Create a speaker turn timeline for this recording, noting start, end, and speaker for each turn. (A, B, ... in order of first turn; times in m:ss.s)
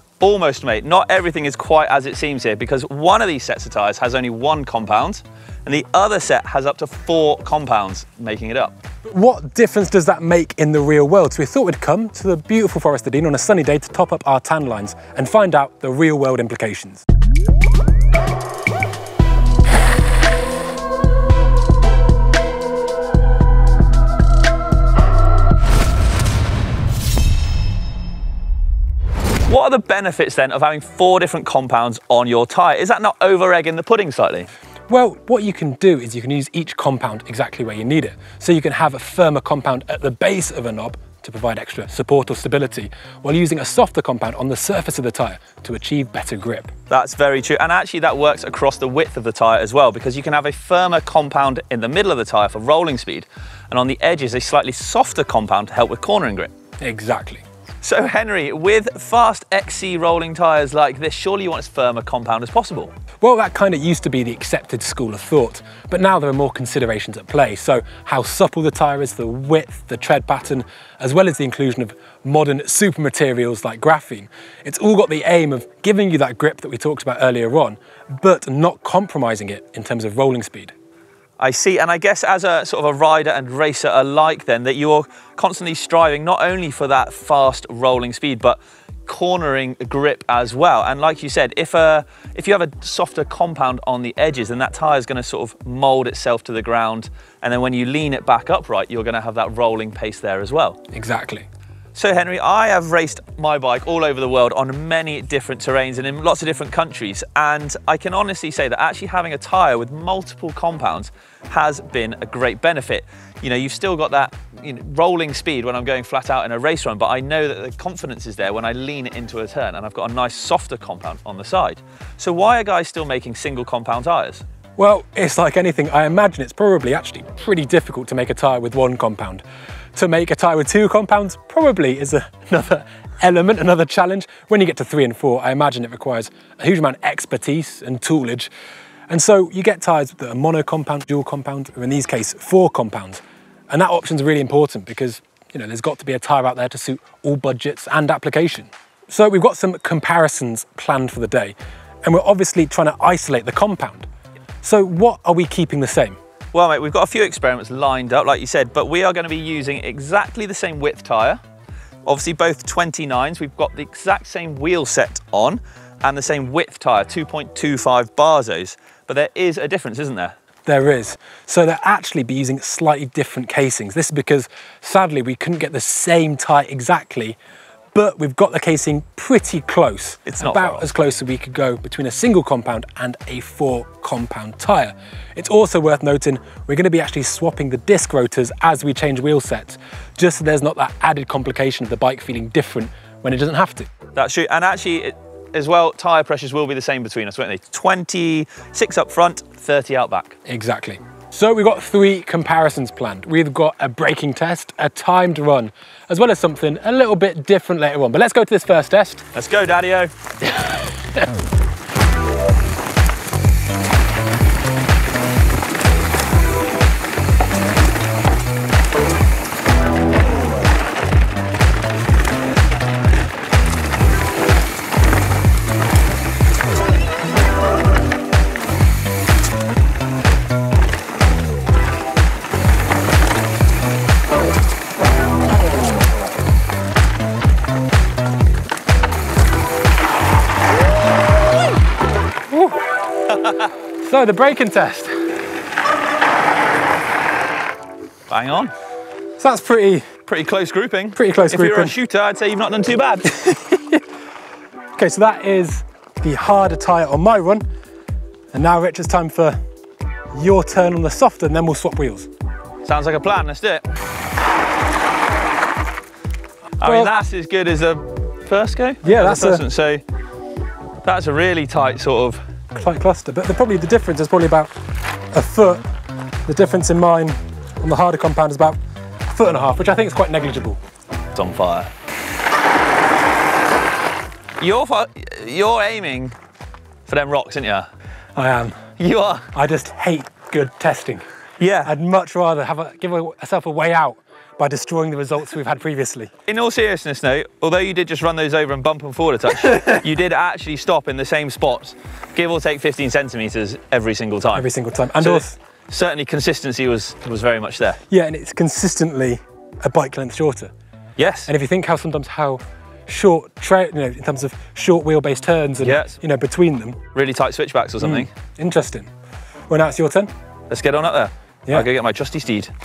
0:00.2-0:08.7 A
0:09.1-0:17.0 B
0:29.5-0:34.5 A
0:34.9-0:46.7 B
0:46.9-0:56.5 A
0:56.8-0:57.4 B
0:57.8-1:02.9 A
1:03.2-1:20.8 B
1:21.4-1:40.8 A
1:40.9-1:41.5 B
1:42.0-2:04.4 A
2:04.8-2:09.4 B
2:10.0-2:18.5 B
2:19.1-2:34.1 B
2:34.6-2:36.2 B
2:36.5-2:41.4 A
2:42.0-2:50.4 A
2:50.7-2:57.4 B
2:57.9-3:13.9 B
3:00.3-3:00.9 A
3:14.2-3:20.4 A
3:20.5-3:29.2 B
3:29.3-3:30.1 A
4:04.0-4:05.1 B
4:08.3-4:08.7 A
4:09.4-4:10.0 B
4:10.3-4:13.6 A
4:11.2-4:12.0 B
4:15.0-4:17.6 B
4:18.5-4:19.6 B
4:20.3-4:22.3 B
4:22.8-4:23.9 A
4:26.8-4:30.0 A
4:26.8-4:27.1 B
4:29.0-4:29.7 B
4:31.0-4:32.4 A
4:32.7-4:34.7 B
4:35.3-4:35.8 B
4:36.5-4:38.8 B
4:39.3-4:40.8 B
4:41.4-4:41.9 A
4:44.6-4:46.4 A
4:47.1-4:47.9 A
4:48.4-4:48.8 B
4:49.0-4:49.5 A
4:49.5-4:51.2 B
4:51.6-4:51.9 A
4:51.8-4:56.3 B
4:56.5-5:08.0 A
5:04.5-5:05.6 B
5:08.1-5:10.7 B
5:11.2-5:11.5 A
5:11.5-5:17.0 B
5:15.8-5:16.2 A
5:17.1-5:18.3 A
5:18.0-5:19.1 B
5:19.7-5:20.3 B
5:20.7-5:22.7 A